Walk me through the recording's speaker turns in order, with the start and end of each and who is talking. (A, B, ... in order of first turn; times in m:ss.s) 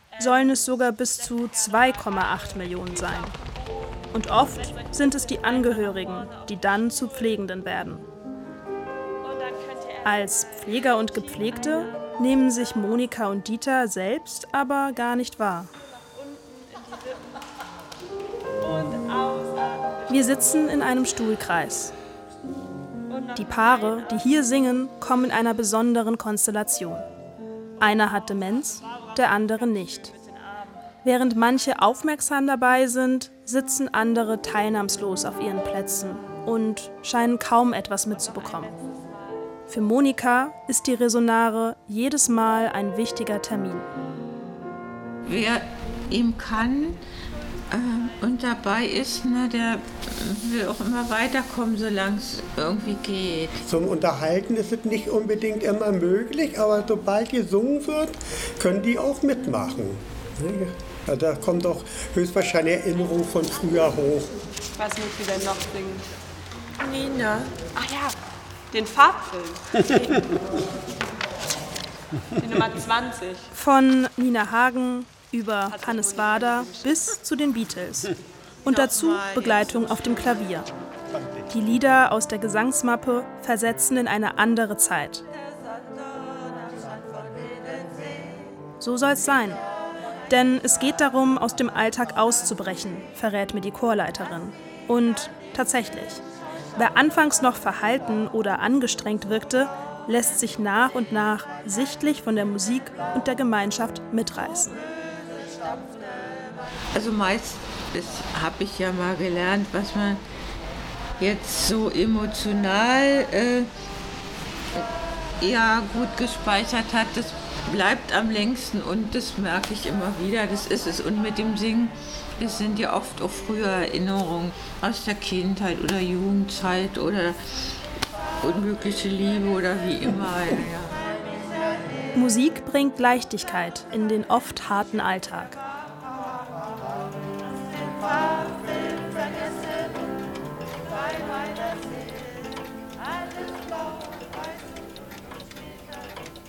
0:00.2-0:03.4 A
0:01.4-0:03.3 B
0:04.1-0:08.1 A
0:04.4-0:06.9 B
0:09.2-0:12.0 B
0:10.0-0:15.7 A
0:16.1-0:17.4 B
0:18.6-0:20.7 B
0:20.1-0:21.9 A
0:23.1-0:24.3 B
0:23.3-0:27.1 A
0:27.8-0:30.1 A
0:28.9-0:29.2 B
0:29.8-0:30.7 B
0:31.0-0:38.7 A
0:38.3-0:38.6 B
0:39.7-0:43.9 A
0:45.2-0:47.0 C
0:47.7-0:53.6 C
0:53.6-1:04.3 D
1:04.7-1:06.1 B
1:06.8-1:08.2 B
1:08.7-1:10.3 B
1:09.8-1:10.4 D
1:12.4-1:13.5 B
1:13.5-1:20.7 A
1:15.7-1:17.1 B
1:18.6-1:20.4 B
1:21.5-1:25.2 A
1:28.8-1:29.6 A
1:30.3-1:36.2 A
1:36.8-1:44.9 A
1:46.9-1:50.2 C
1:51.2-1:53.7 C
1:55.4-2:07.7 C
2:08.4-2:11.0 C
2:12.1-2:15.6 A